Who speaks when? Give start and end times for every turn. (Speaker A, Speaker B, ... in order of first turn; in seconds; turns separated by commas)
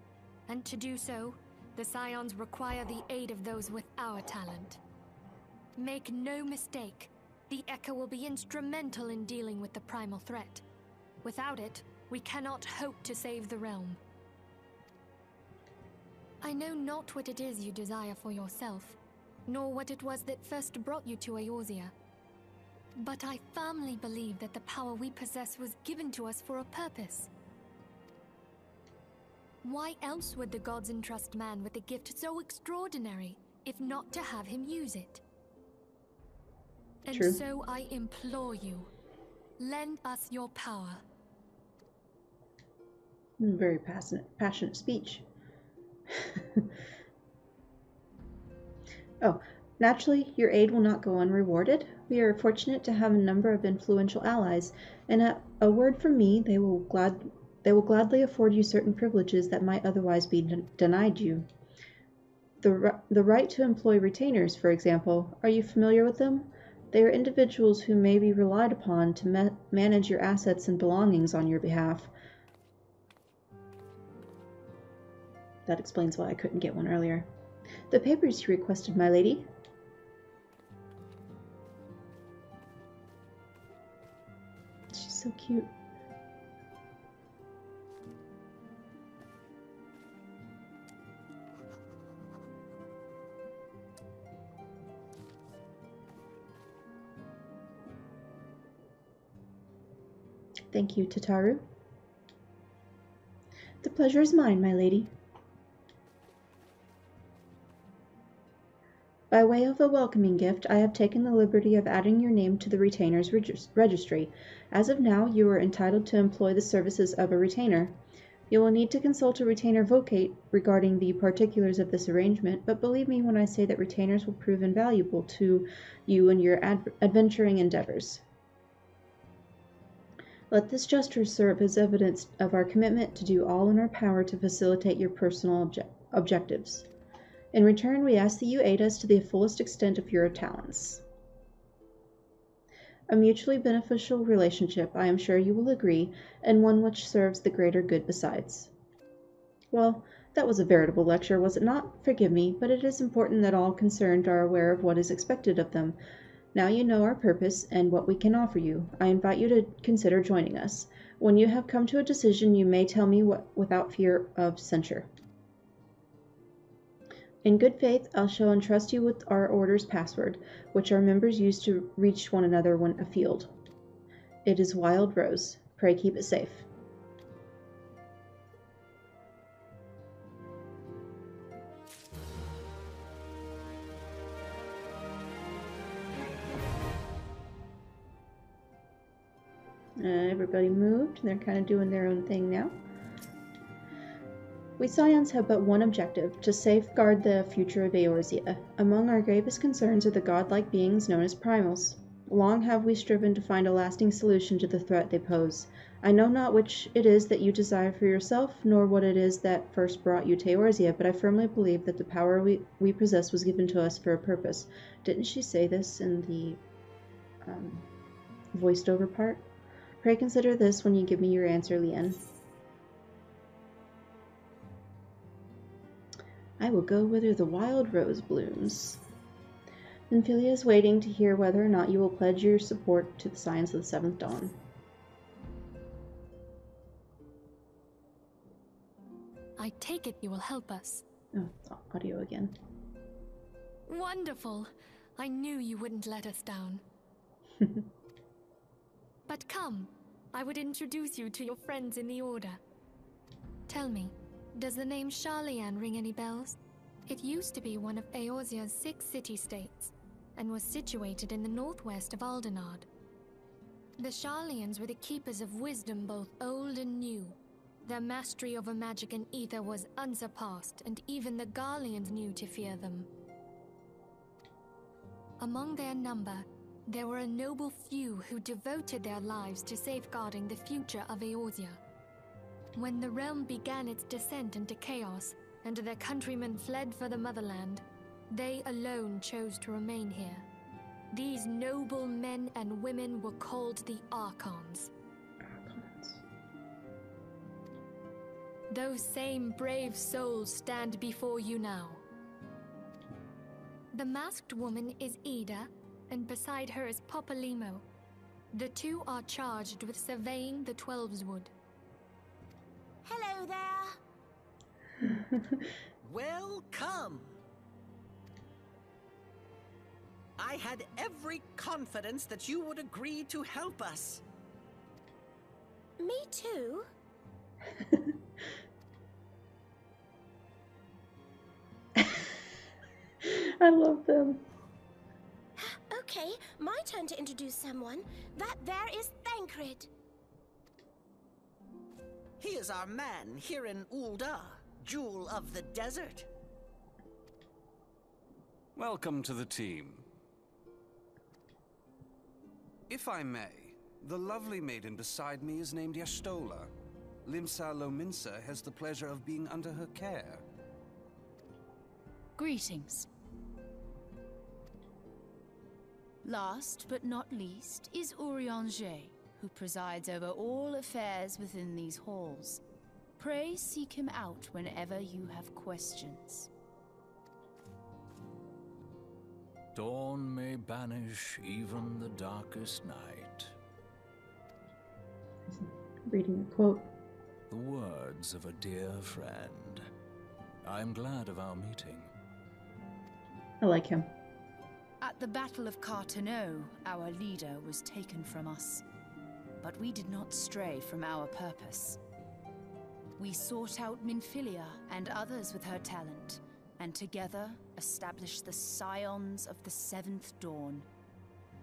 Speaker A: 0.5-4.8, Speaker A: 5.8-10.6, Speaker A: 11.2-14.0, Speaker A: 16.4-21.9, Speaker A: 23.0-27.3, Speaker A: 29.6-35.2, Speaker A: 37.0-38.9, Speaker B: 37.1-37.4, Speaker A: 39.6-41.0, Speaker B: 43.4-45.2, Speaker B: 46.2-46.6, Speaker B: 49.2-61.5, Speaker B: 62.6-72.1, Speaker B: 75.7-77.3, Speaker B: 77.9-79.5, Speaker B: 84.9-85.7, Speaker B: 100.7-101.6, Speaker B: 103.8-105.1, Speaker B: 109.3-118.0, Speaker B: 118.5-128.2, Speaker B: 130.5-136.9, Speaker B: 137.5-141.0, Speaker B: 143.1-148.7, Speaker B: 149.7-156.0, Speaker B: 156.5-165.1, Speaker B: 167.4-173.5, Speaker B: 174.4-176.7, Speaker B: 190.0-192.8, Speaker B: 194.8-216.6, Speaker B: 217.4-217.8, Speaker B: 218.5-219.4, Speaker B: 220.0-222.2, Speaker B: 226.6-229.0, Speaker B: 230.1-234.6, Speaker A: 239.6-241.0, Speaker B: 241.3-242.6, Speaker A: 243.8-246.8, Speaker A: 249.3-252.6, Speaker A: 253.7-262.9, Speaker A: 264.0-273.1, Speaker A: 275.4-281.8, Speaker A: 282.7-290.4, Speaker A: 291.1-294.9, Speaker B: 295.4-296.2, Speaker A: 298.7-302.0, Speaker A: 303.9-307.8, Speaker A: 308.5-311.5, Speaker C: 313.0-313.9, Speaker B: 315.0-315.4, Speaker D: 316.0-317.3, Speaker D: 320.4-324.2, Speaker C: 326.0-326.9, Speaker B: 332.0-332.2, Speaker B: 333.2-334.4, Speaker C: 335.6-339.9, Speaker D: 342.4-346.3, Speaker E: 348.8-350.0, Speaker E: 352.9-356.7, Speaker E: 357.2-360.4, Speaker F: 362.4-363.1, Speaker F: 366.2-372.6, Speaker F: 373.2-376.5, Speaker G: 379.7-383.5, Speaker B: 385.5-386.9, Speaker G: 387.5-389.8, Speaker G: 390.6-392.1, Speaker B: 393.6-394.1, Speaker F: 395.0-398.8, Speaker F: 399.6-402.0, Speaker F: 403.2-410.9